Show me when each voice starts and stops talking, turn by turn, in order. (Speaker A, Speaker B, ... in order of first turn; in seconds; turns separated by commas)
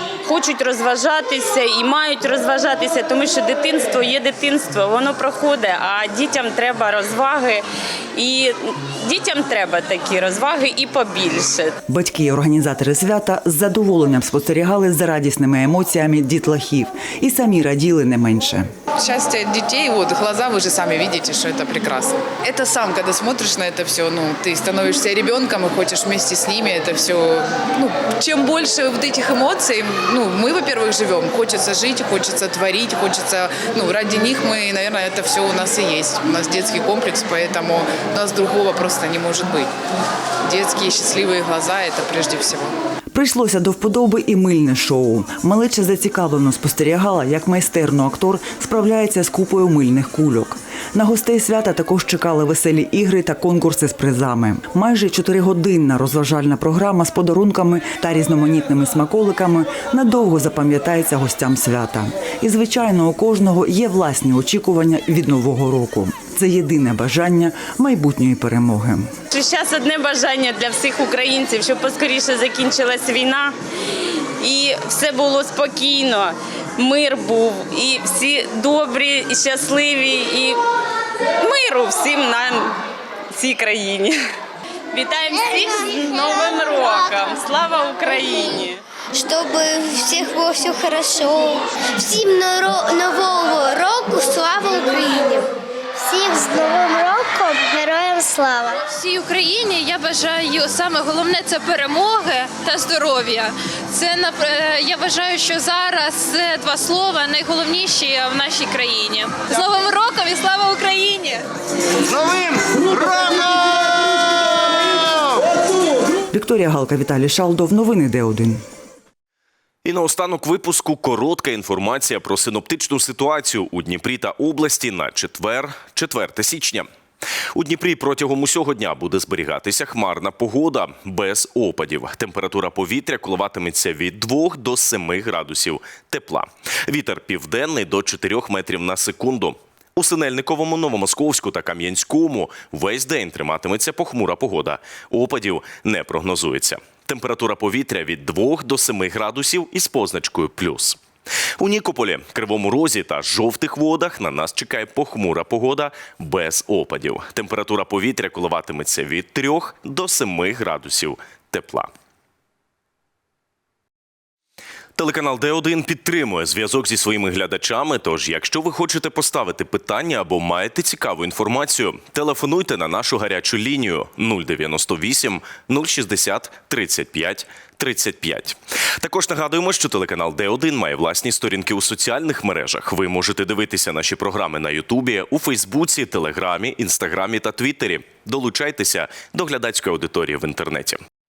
Speaker A: 0.2-11.8, Speaker B: 11.9-18.7, Speaker C: 19.0-39.7, Speaker C: 40.4-42.8, Speaker B: 43.1-69.1, Speaker A: 69.3-73.5, Speaker A: 74.4-80.6, Speaker A: 81.4-82.8, Speaker A: 83.3-84.2, Speaker A: 84.9-88.8, Speaker D: 85.3-85.7, Speaker D: 86.8-87.1, Speaker D: 89.1-98.8, Speaker E: 98.9-111.4, Speaker B: 116.3-118.6, Speaker F: 119.8-126.9, Speaker F: 127.5-151.0, Speaker F: 151.6-161.9, Speaker F: 164.9-191.0